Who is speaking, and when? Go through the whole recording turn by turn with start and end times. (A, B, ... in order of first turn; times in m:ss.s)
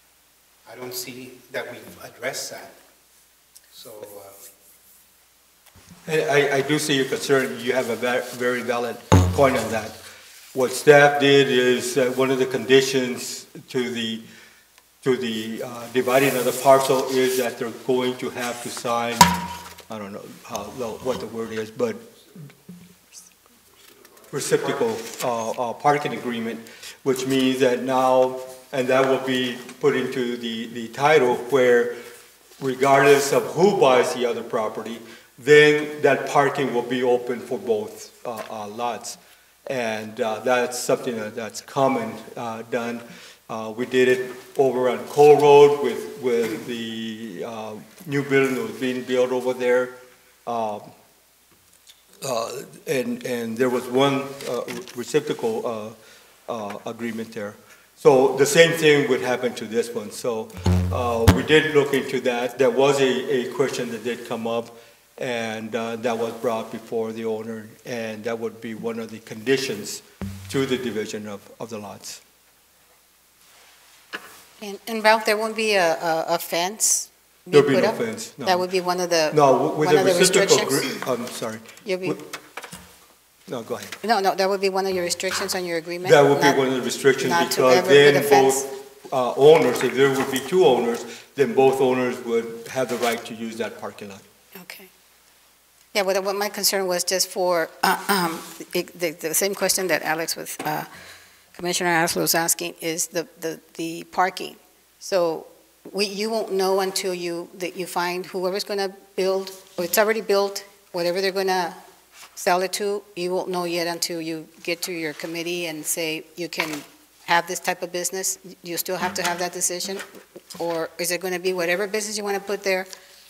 0:00.6-0:02.8 A
0:03.7-0:04.5 A
0:06.0-0:10.0 B
0:10.5-0:14.2 B
0:15.0-0:22.1 B
0:24.3-0:32.0 B
0:32.6-0:50.9 B
0:52.2-1:12.2 B
1:14.6-1:21.0 C
1:17.5-1:18.7 B
1:19.3-1:22.2 B
1:21.8-1:22.2 C
1:23.5-1:24.0 B
1:24.0-1:26.6 C
1:26.0-1:34.2 B
1:27.2-1:28.7 C
1:34.5-1:34.9 C
1:35.9-1:40.9 C
1:41.5-1:51.8 C
1:52.4-2:00.0 C
2:00.6-2:02.9 C